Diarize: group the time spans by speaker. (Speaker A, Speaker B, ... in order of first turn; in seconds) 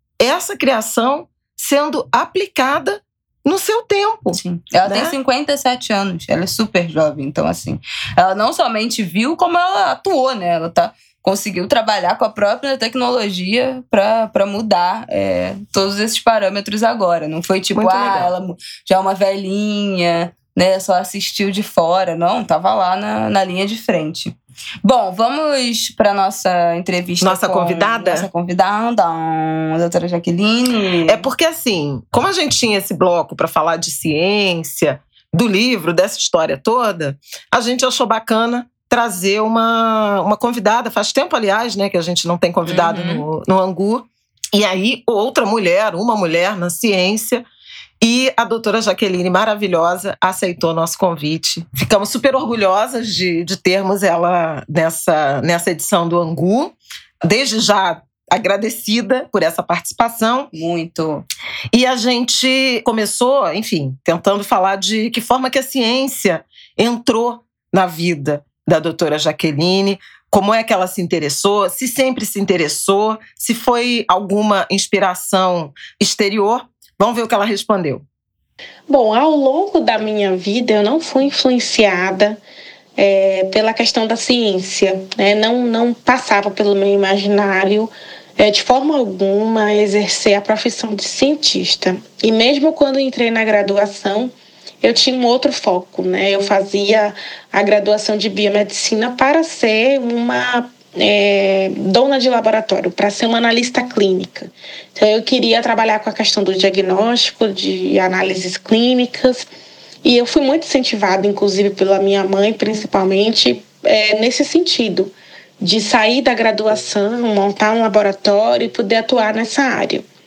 Speaker A: 0.2-5.1, 17.8-18.3, 27.2-28.3, 31.1-47.4, 48.0-60.5, 61.7-78.0
Speaker B: 4.3-31.2, 42.7-43.2, 60.5-61.2
Speaker C: 78.9-82.4, 83.0-109.5, 110.0-120.0